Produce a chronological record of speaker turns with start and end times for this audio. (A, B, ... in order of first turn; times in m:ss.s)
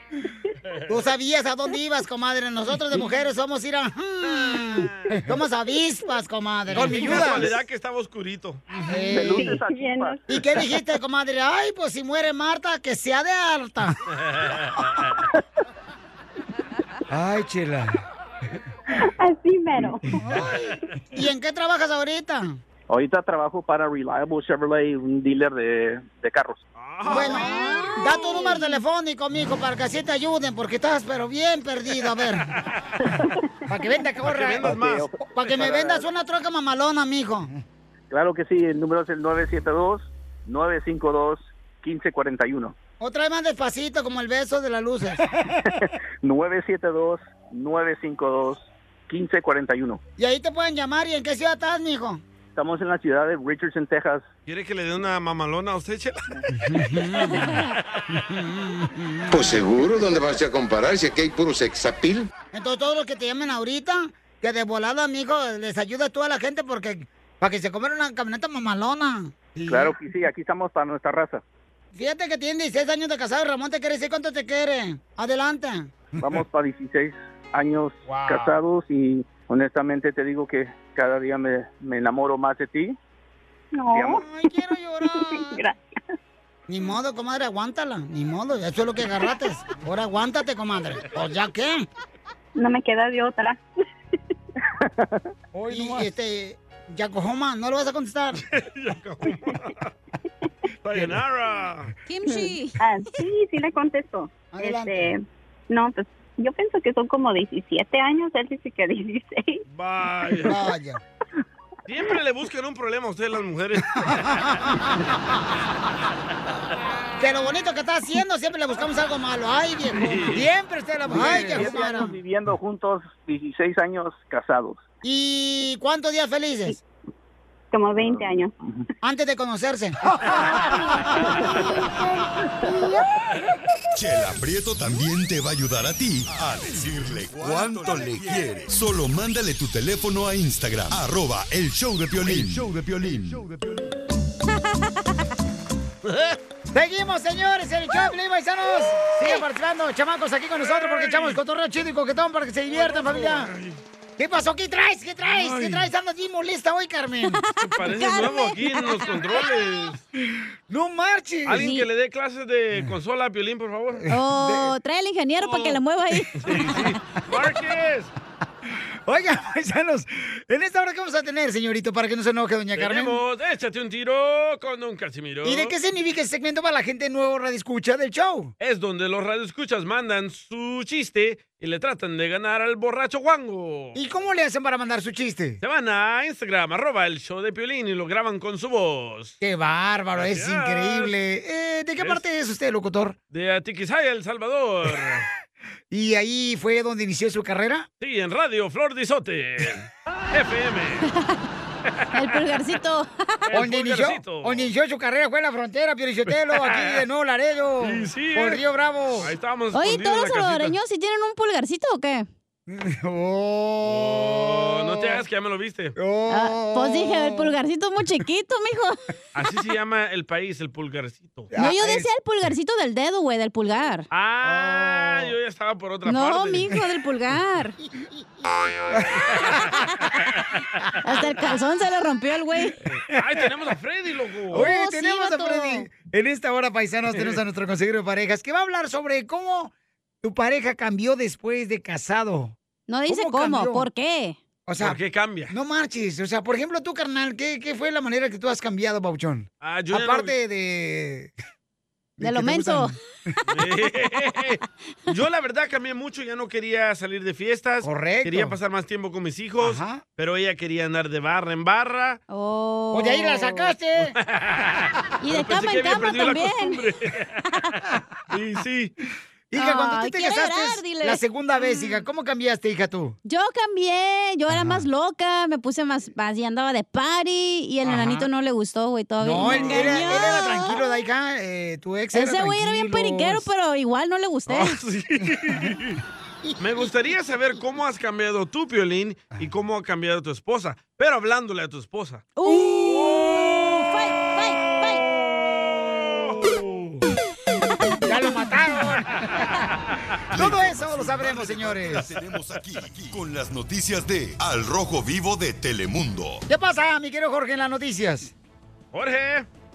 0:00.9-0:07.5 A
0:06.7-0:08.6 B
0:08.9-0:09.6 A
0:08.9-0:10.2 C
0:09.0-0:10.4 D
0:10.3-0:14.0 A
0:14.2-0:15.0 B
0:17.3-0:17.8 A
0:19.2-0:20.2 C
0:20.2-0:20.6 A
0:21.1-0:22.6 A
0:22.9-0:26.6 D
0:26.8-0:27.5 B
0:27.1-0:32.5 A
0:27.1-0:28.8 E
0:33.7-0:37.5 A
0:34.2-0:35.1 B
0:34.6-0:36.1 D
0:38.1-0:42.8 D
0:43.0-0:45.2 A
0:45.8-0:50.0 D
0:50.2-0:52.2 A
0:52.6-0:54.3 D
0:54.5-0:56.5 B
0:56.6-0:57.6 A
0:58.3-0:59.6 A
0:59.3-1:02.3 F
1:02.5-1:10.0 A
1:09.7-1:11.4 D
1:11.9-1:16.0 A
1:16.2-1:22.9 D
1:18.1-1:18.5 A
1:23.8-1:24.2 C
1:23.9-1:24.2 D
1:24.1-1:25.6 A
1:25.1-1:25.8 C
1:26.7-1:31.9 A
1:32.6-1:33.6 C
1:34.8-1:35.2 D
1:35.7-1:38.4 A
1:38.5-1:39.9 B
1:40.8-1:41.9 B
1:42.1-1:42.8 E
1:42.8-1:45.2 C
1:44.5-1:45.1 A
1:45.7-1:49.6 C
1:49.7-1:50.6 B
1:50.4-1:51.0 A
1:51.9-1:54.4 B
1:54.5-1:54.9 A
1:57.2-2:02.2 A
1:59.9-2:00.5 B
2:01.1-2:04.8 D
2:05.0-2:06.8 A
2:07.7-2:08.5 C
2:09.0-2:10.0 A
2:14.0-2:23.8 G
2:26.1-2:26.3 B
2:26.7-2:33.5 A
2:30.6-2:31.4 B
2:32.7-2:33.8 B
2:34.2-2:37.4 A
2:35.2-2:35.9 B
2:37.3-2:39.1 E
2:37.6-2:40.0 B
2:40.7-2:41.7 A
2:41.5-2:44.1 B
2:41.6-2:41.9 E
2:44.1-2:46.9 E
2:44.4-2:44.7 A
2:45.4-2:45.8 B
2:46.4-2:48.1 B
2:49.1-2:53.2 A
2:52.8-2:55.8 B
2:55.4-2:58.5 A
2:58.6-3:04.0 B
3:04.0-3:05.6 A
3:05.6-3:09.4 B
3:09.4-3:13.2 A
3:10.2-3:11.2 B
3:12.0-3:12.2 B
3:13.3-3:15.3 B
3:15.9-3:17.9 A
3:18.0-3:21.1 B
3:21.9-3:22.4 B
3:22.1-3:23.5 E
3:23.5-3:24.7 B
3:23.5-3:29.3 A
3:26.3-3:27.0 B
3:27.8-3:30.8 B
3:29.7-3:32.3 E
3:32.7-3:35.2 A
3:33.8-3:36.0 B
3:36.0-3:37.5 A
3:36.3-3:39.0 E
3:39.4-3:41.5 B
3:41.5-3:42.1 A
3:41.6-3:44.1 E
3:44.1-3:46.7 B
3:44.4-3:45.3 A
3:46.0-3:47.8 E
3:48.9-3:49.6 A
3:49.4-3:50.2 E
3:51.0-3:52.8 E
3:52.9-3:54.7 B
3:54.5-4:02.6 A
3:54.5-3:55.9 E
3:57.1-3:57.4 B
4:02.9-4:04.4 E
4:03.1-4:03.9 A
4:04.7-4:11.3 A
4:04.8-4:05.5 B
4:09.6-4:10.3 B
4:12.2-4:12.9 A
4:12.2-4:13.0 E
4:13.5-4:22.2 B
4:17.8-4:18.6 A
4:19.6-4:20.0 A
4:22.3-4:23.7 E
4:22.9-4:24.2 A
4:24.2-4:27.4 B
4:25.2-4:26.8 E
4:28.3-4:28.9 B
4:29.5-4:33.2 A
4:29.5-4:32.0 E
4:33.2-4:41.0 E
4:34.6-4:34.8 A
4:37.8-4:38.3 A
4:39.2-4:43.5 A
4:39.5-4:40.0 B
4:42.1-4:44.8 E
4:44.5-4:46.0 B
4:46.6-4:52.2 B
4:52.4-4:55.0 E
4:56.0-4:57.0 B
4:58.0-4:59.5 A
5:00.3-5:06.4 G
5:00.3-5:02.1 A
5:06.5-5:08.3 A
5:08.9-5:09.5 B